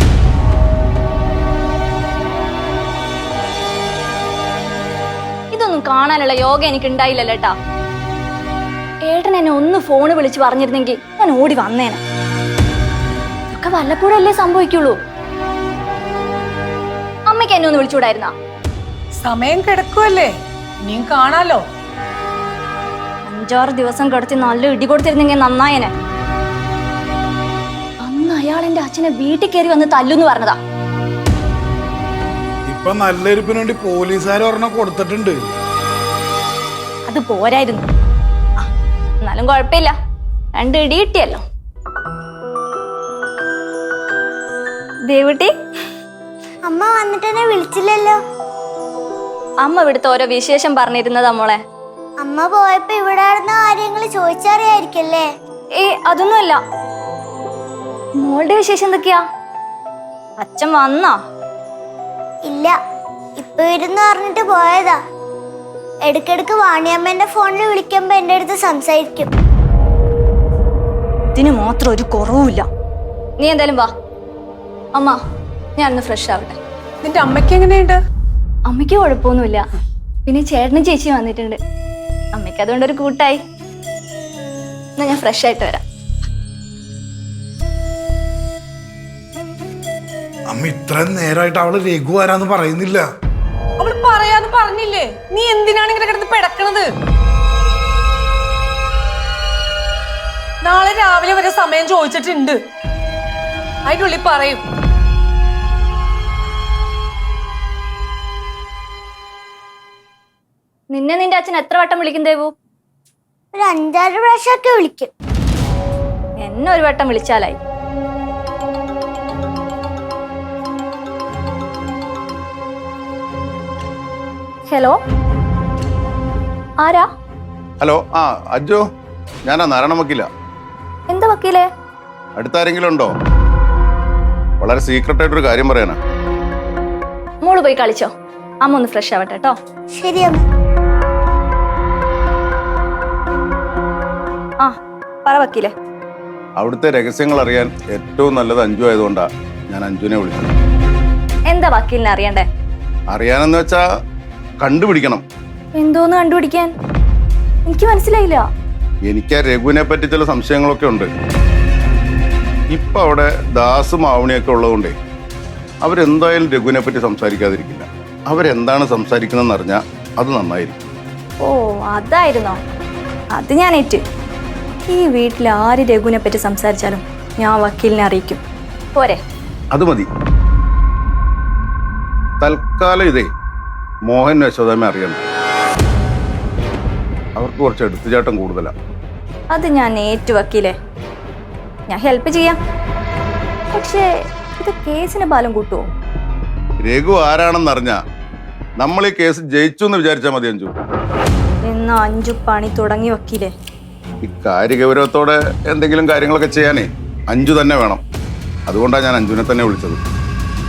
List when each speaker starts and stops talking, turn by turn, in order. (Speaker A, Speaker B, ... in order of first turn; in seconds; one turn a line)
Speaker A: 5.5-7.5
Speaker A: 9.1-12.0
Speaker A: 13.5-15.0
Speaker A: 17.3-18.3
Speaker B: 19.2-20.3
Speaker B: 20.9-21.6
Speaker A: 23.2-25.9
Speaker A: 28.0-30.6
Speaker C: 32.6-35.4
Speaker A: 37.1-37.8
Speaker A: 39.2-39.9
Speaker A: 40.5-41.4
Speaker A: 45.1-45.5
Speaker D: 46.7-48.2
Speaker A: 49.6-51.6
Speaker D: 52.2-55.3
Speaker A: 55.7-56.6
Speaker A: 58.2-59.2
Speaker A: 60.4-61.2
Speaker D: 62.5-62.8
Speaker D: 63.4-65.0
Speaker D: 66.0-69.3
Speaker A: 71.3-72.7
Speaker A: 73.4-73.9
Speaker A: 75.8-76.6
Speaker B: 77.0-78.0
Speaker A: 78.7-79.7
Speaker A: 80.2-81.6
Speaker A: 82.3-83.4
Speaker A: 85.0-85.8
Speaker C: 90.5-93.0
Speaker B: 93.8-96.9
Speaker B: 100.6-102.6
Speaker B: 103.8-104.6
Speaker A: 110.9-112.5
Speaker D: 113.5-115.1
Speaker A: 116.4-117.6
Speaker A: 124.7-125.0
Speaker A: 126.8-127.1
Speaker E: 127.8-128.8
Speaker E: 129.4-130.3
Speaker A: 131.1-131.7
Speaker E: 132.4-133.1
Speaker E: 134.6-136.0
Speaker A: 137.4-138.1
Speaker A: 138.6-139.6
Speaker D: 140.0-140.4
Speaker A: 144.6-145.7
Speaker E: 146.6-150.5
Speaker A: 151.5-152.4
Speaker E: 153.1-153.8
Speaker E: 154.6-155.2
Speaker A: 155.8-156.7
Speaker A: 157.7-158.4
Speaker E: 159.1-161.1
Speaker E: 162.7-164.9
Speaker E: 165.8-170.8
Speaker A: 171.4-172.6
Speaker A: 173.3-174.0
Speaker A: 174.9-178.4
Speaker A: 178.9-179.2
Speaker E: 179.7-180.1
Speaker E: 182.4-183.3
Speaker E: 184.1-185.2
Speaker E: 187.3-188.7
Speaker A: 189.5-190.8
Speaker A: 191.9-192.6
Speaker A: 193.7-195.9
Speaker E: 196.8-198.0
Speaker E: 198.8-200.7
Speaker A: 201.6-203.5
Speaker E: 204.2-208.0
Speaker E: 208.7-210.0